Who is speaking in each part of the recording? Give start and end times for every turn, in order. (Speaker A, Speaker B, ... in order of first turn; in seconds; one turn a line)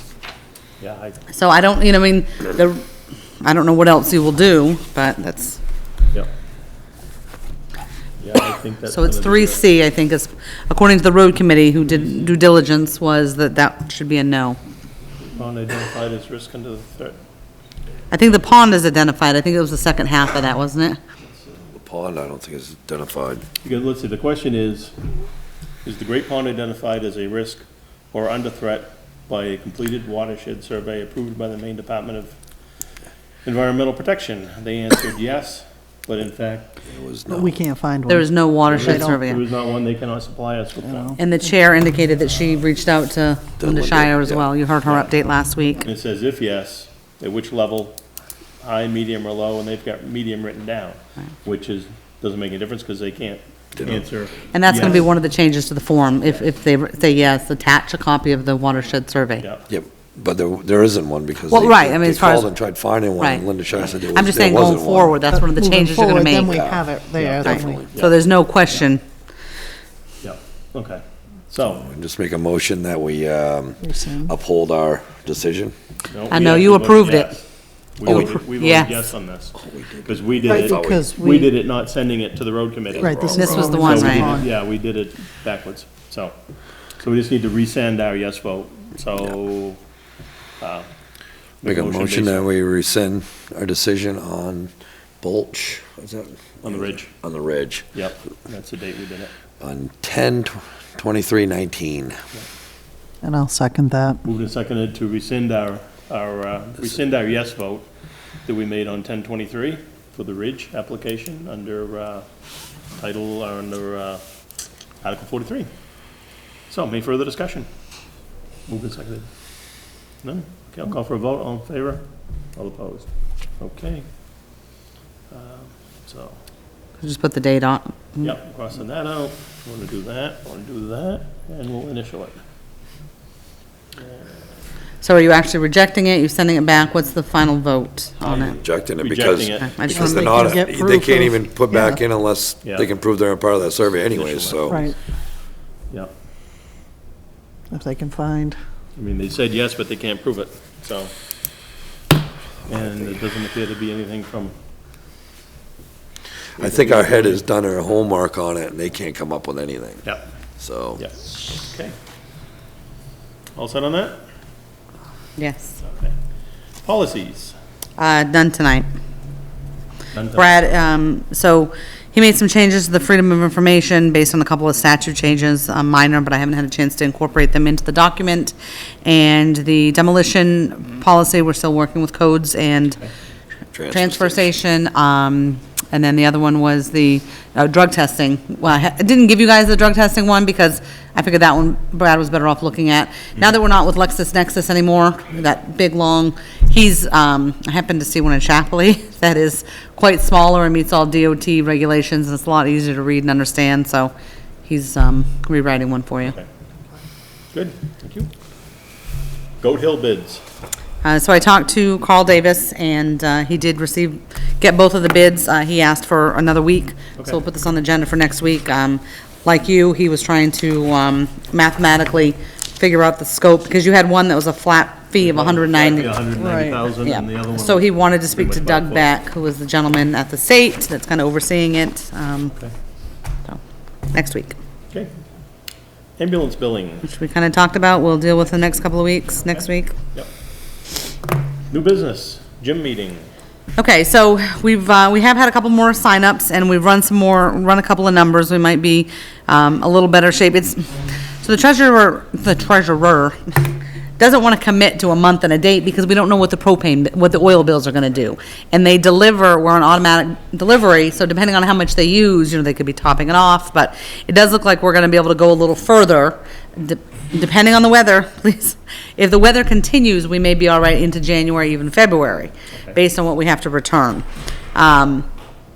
Speaker A: 0.8-1.2
Speaker B: 1.3-2.8
Speaker B: 3.4-5.6
Speaker A: 8.2-9.6
Speaker B: 8.9-14.6
Speaker A: 15.2-17.2
Speaker B: 18.1-21.0
Speaker C: 21.7-23.4
Speaker A: 23.6-24.9
Speaker A: 25.8-32.4
Speaker A: 33.4-36.7
Speaker C: 36.8-37.6
Speaker D: 37.3-39.2
Speaker B: 38.1-39.4
Speaker A: 38.6-41.2
Speaker D: 40.8-41.5
Speaker B: 41.2-45.8
Speaker C: 43.6-44.5
Speaker A: 44.9-45.1
Speaker A: 45.8-48.0
Speaker A: 48.6-55.1
Speaker B: 54.5-59.5
Speaker A: 59.4-59.7
Speaker C: 59.7-65.2
Speaker B: 61.5-62.5
Speaker B: 63.2-63.4
Speaker B: 64.1-66.5
Speaker D: 65.3-67.9
Speaker C: 66.4-66.8
Speaker A: 67.2-68.2
Speaker C: 67.3-67.9
Speaker B: 67.5-69.0
Speaker A: 70.2-71.8
Speaker C: 71.8-75.7
Speaker D: 73.8-74.3
Speaker A: 76.1-86.3
Speaker B: 76.3-77.3
Speaker B: 78.0-79.0
Speaker C: 78.0-78.3
Speaker C: 79.6-81.1
Speaker D: 80.4-81.5
Speaker C: 82.9-84.3
Speaker D: 83.0-84.5
Speaker B: 83.3-84.4
Speaker A: 87.0-89.8
Speaker A: 90.6-90.9
Speaker A: 91.6-92.5
Speaker C: 91.6-97.9
Speaker A: 96.6-97.1
Speaker A: 97.9-99.3
Speaker C: 99.6-102.2
Speaker D: 103.2-104.2
Speaker A: 104.2-107.9
Speaker A: 108.4-117.9
Speaker A: 118.7-124.1
Speaker A: 125.3-126.4
Speaker B: 127.0-128.3
Speaker A: 128.2-132.4
Speaker A: 134.0-134.3
Speaker B: 135.0-138.6
Speaker A: 138.2-139.8
Speaker C: 138.3-144.8
Speaker B: 139.7-140.5
Speaker D: 139.9-142.0
Speaker A: 142.6-142.9
Speaker A: 144.1-144.9
Speaker D: 144.7-144.9
Speaker D: 147.7-148.6
Speaker A: 148.9-151.1
Speaker A: 152.7-154.5
Speaker A: 156.6-157.4
Speaker C: 156.6-160.0
Speaker C: 160.6-161.0
Speaker A: 161.0-161.9
Speaker A: 163.5-164.2
Speaker B: 165.4-165.7
Speaker A: 165.8-166.2
Speaker A: 166.8-167.6
Speaker B: 168.0-168.9
Speaker A: 170.1-170.8
Speaker B: 170.3-183.0
Speaker C: 183.7-184.5
Speaker B: 183.9-204.1
Speaker B: 204.7-206.3
Speaker A: 207.5-208.3
Speaker A: 209.6-210.4
Speaker B: 211.0-226.2
Speaker A: 225.2-229.1
Speaker D: 226.3-226.8
Speaker B: 227.0-232.5
Speaker B: 233.4-234.6
Speaker A: 236.2-237.1
Speaker B: 237.1-239.9
Speaker A: 239.4-240.3
Speaker A: 241.7-243.3
Speaker B: 243.8-253.4
Speaker B: 254.2-275.3